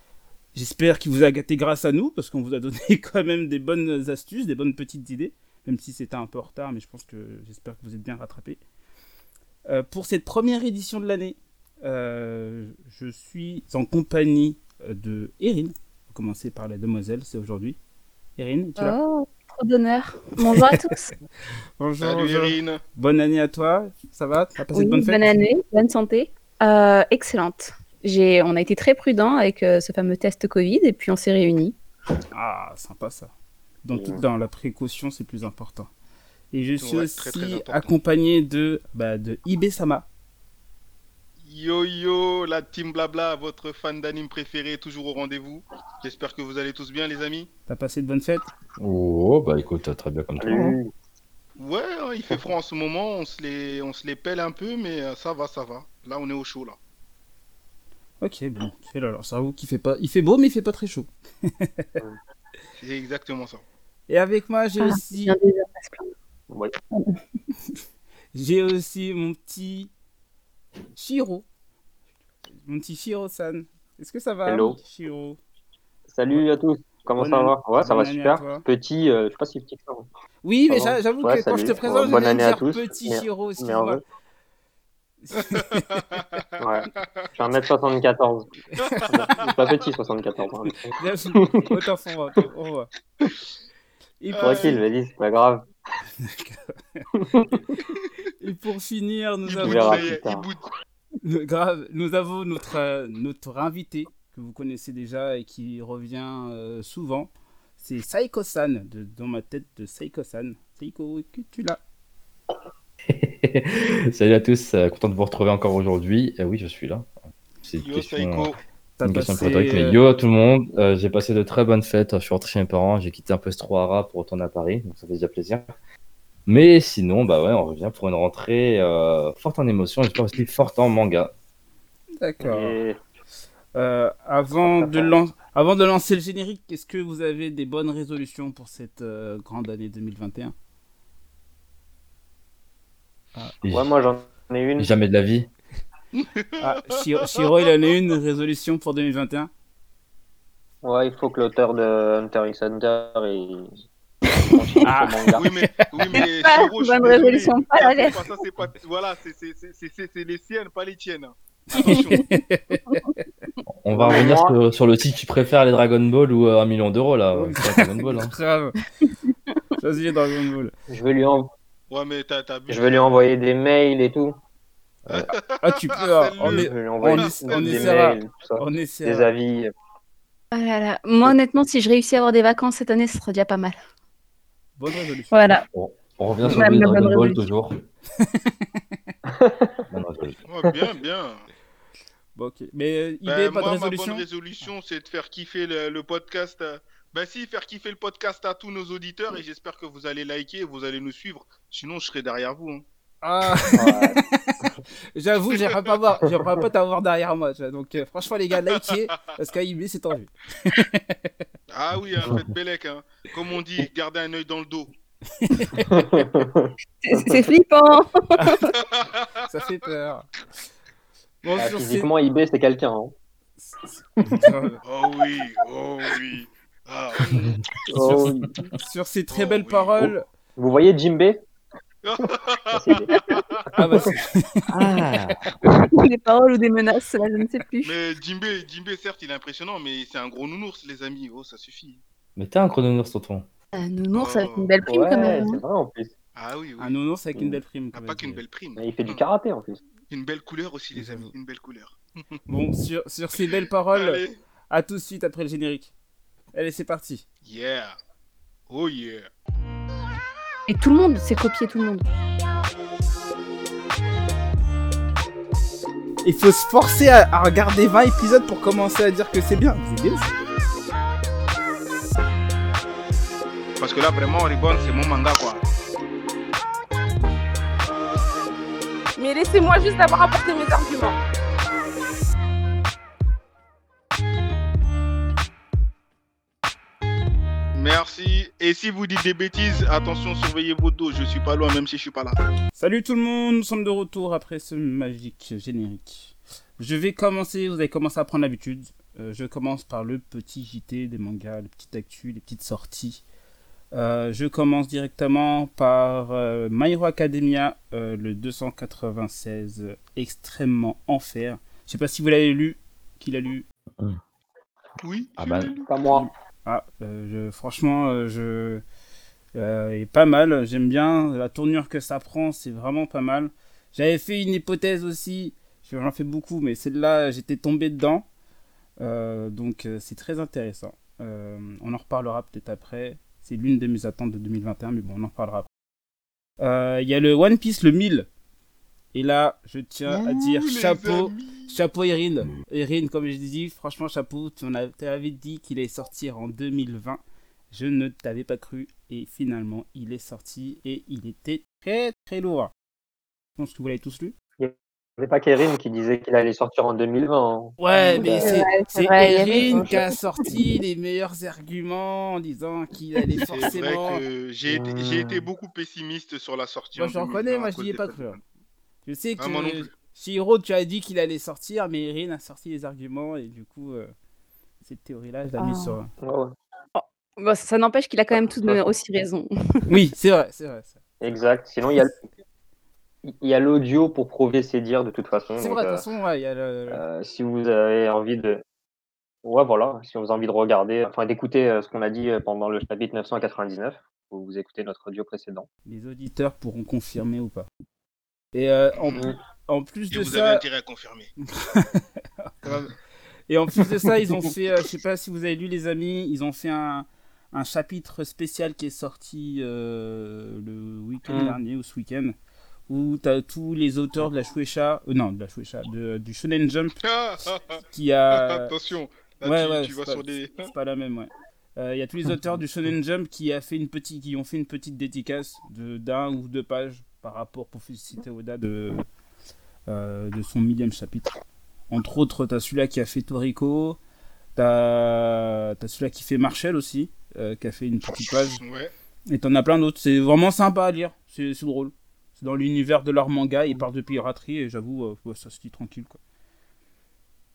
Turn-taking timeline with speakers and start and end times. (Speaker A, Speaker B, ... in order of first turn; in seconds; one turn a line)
Speaker A: 0.5-8.6
Speaker A: 9.7-17.8
Speaker A: 18.4-19.0
Speaker B: 18.8-21.1
Speaker A: 20.4-20.8
Speaker A: 21.8-25.3
Speaker C: 22.0-22.8
Speaker B: 24.7-31.8
Speaker A: 32.3-33.3
Speaker A: 33.8-35.9
Speaker D: 33.9-34.2
Speaker A: 36.5-40.1
Speaker C: 36.8-37.9
Speaker C: 41.4-47.5
Speaker A: 47.7-48.4
Speaker E: 48.8-50.7
Speaker D: 50.4-50.9
Speaker C: 51.6-56.8
Speaker A: 58.2-62.0
Speaker C: 62.8-63.6
Speaker A: 64.1-65.3
Speaker B: 64.8-66.1
Speaker A: 68.3-69.9
Speaker A: 71.0-71.5
Speaker A: 72.6-75.4
Speaker D: 74.5-74.8
Speaker D: 76.1-80.1
Speaker A: 77.2-78.6
Speaker A: 80.4-84.0
Speaker D: 80.7-84.0
Speaker A: 85.2-86.2
Speaker C: 85.4-87.3
Speaker D: 86.6-88.5
Speaker A: 88.7-89.5
Speaker C: 88.9-89.7
Speaker D: 89.1-91.8
Speaker A: 90.9-92.9
Speaker A: 94.2-94.8
Speaker C: 94.3-94.8
Speaker D: 94.4-95.7
Speaker A: 96.2-97.6
Speaker D: 97.2-97.6
Speaker A: 98.4-100.1
Speaker C: 99.5-100.6
Speaker D: 99.6-100.5
Speaker A: 101.2-111.8
Speaker E: 113.1-117.1
Speaker E: 117.6-118.5
Speaker C: 117.8-118.6
Speaker A: 119.0-120.0
Speaker E: 119.0-125.7
Speaker E: 126.5-131.3
Speaker A: 132.2-132.8
Speaker D: 132.4-133.0
Speaker A: 133.8-140.5
Speaker D: 134.6-135.2
Speaker E: 143.6-143.9
Speaker D: 143.7-144.9
Speaker E: 144.8-145.5
Speaker C: 146.1-147.4
Speaker A: 146.6-149.5
Speaker D: 150.8-153.7
Speaker D: 154.4-155.5
Speaker A: 154.8-156.2
Speaker C: 155.3-162.3
Speaker B: 156.2-158.3
Speaker A: 161.7-163.0
Speaker E: 163.7-168.3
Speaker D: 163.9-164.5
Speaker A: 167.3-168.8
Speaker A: 169.8-170.7
Speaker D: 170.9-171.5
Speaker C: 171.9-173.3
Speaker D: 172.7-174.4
Speaker C: 175.1-178.0
Speaker A: 175.6-179.3
Speaker D: 176.4-179.7
Speaker B: 180.5-183.8
Speaker A: 184.8-185.4
Speaker B: 185.3-185.7
Speaker E: 185.7-187.8
Speaker B: 186.5-187.5
Speaker A: 188.2-189.0
Speaker D: 189.3-189.8
Speaker E: 189.9-190.4
Speaker C: 190.5-191.4
Speaker A: 192.4-194.2
Speaker C: 193.3-202.8
Speaker A: 203.2-211.4
Speaker D: 203.7-204.7
Speaker C: 205.5-205.8
Speaker C: 211.7-214.9
Speaker A: 215.4-216.2
Speaker D: 215.8-217.4
Speaker B: 217.0-218.6
Speaker A: 218.4-218.7
Speaker C: 218.7-219.5
Speaker A: 219.5-220.3
Speaker A: 221.4-222.1
Speaker D: 221.6-223.1
Speaker A: 223.6-224.8
Speaker C: 224.8-227.6
Speaker E: 227.3-227.6
Speaker D: 227.9-228.7
Speaker A: 228.0-230.2
Speaker C: 229.3-230.1
Speaker D: 230.6-231.4
Speaker C: 232.0-233.8
Speaker D: 232.7-233.4
Speaker A: 233.8-234.7
Speaker E: 234.7-235.6
Speaker B: 235.8-238.0
Speaker C: 237.8-242.0
Speaker E: 242.4-243.5
Speaker B: 243.7-245.6
Speaker C: 244.1-244.8
Speaker D: 244.9-246.1
Speaker C: 246.3-247.0
Speaker A: 246.8-248.4
Speaker C: 247.9-249.2
Speaker D: 248.8-249.8
Speaker C: 250.1-252.4
Speaker A: 250.9-251.3
Speaker A: 252.5-255.9
Speaker C: 253.9-254.4
Speaker A: 256.5-257.2
Speaker C: 257.4-258.0
Speaker C: 258.7-259.3
Speaker B: 260.7-262.1
Speaker A: 266.2-270.4
Speaker C: 273.8-275.6
Speaker F: 279.2-281.2
Speaker C: 287.8-292.4
Speaker A: 292.8-303.2
Speaker A: 303.9-313.7
Speaker C: 315.0-315.9
Speaker E: 315.4-315.7
Speaker D: 315.9-316.3
Speaker A: 316.1-318.8
Speaker A: 319.6-328.3
Speaker A: 329.0-335.7
Speaker A: 336.6-338.3
Speaker A: 339.1-352.7
Speaker C: 340.1-341.8
Speaker A: 353.6-354.4
Speaker D: 354.6-358.5
Speaker A: 357.8-364.2
Speaker B: 358.1-360.0
Speaker D: 359.6-360.0
Speaker C: 363.5-368.4
Speaker D: 364.7-365.4
Speaker A: 366.9-368.4
Speaker A: 369.0-374.1
Speaker C: 369.4-369.9
Speaker A: 374.8-376.1
Speaker B: 375.6-376.0
Speaker D: 376.2-376.5
Speaker B: 376.9-379.5
Speaker A: 379.9-381.0
Speaker D: 381.2-382.2
Speaker D: 383.2-386.1
Speaker A: 385.6-387.0
Speaker D: 386.9-388.6
Speaker D: 389.4-395.7
Speaker A: 395.9-397.7
Speaker A: 398.5-400.6
Speaker C: 399.0-399.2
Speaker C: 400.1-401.3
Speaker A: 401.4-402.9
Speaker A: 403.5-412.4
Speaker D: 411.3-411.6
Speaker A: 412.9-417.0
Speaker C: 417.0-420.7
Speaker A: 417.9-418.7
Speaker A: 419.4-429.1
Speaker A: 429.9-431.3
Speaker A: 431.9-434.0
Speaker A: 434.6-438.6
Speaker C: 438.6-438.9
Speaker A: 439.3-446.2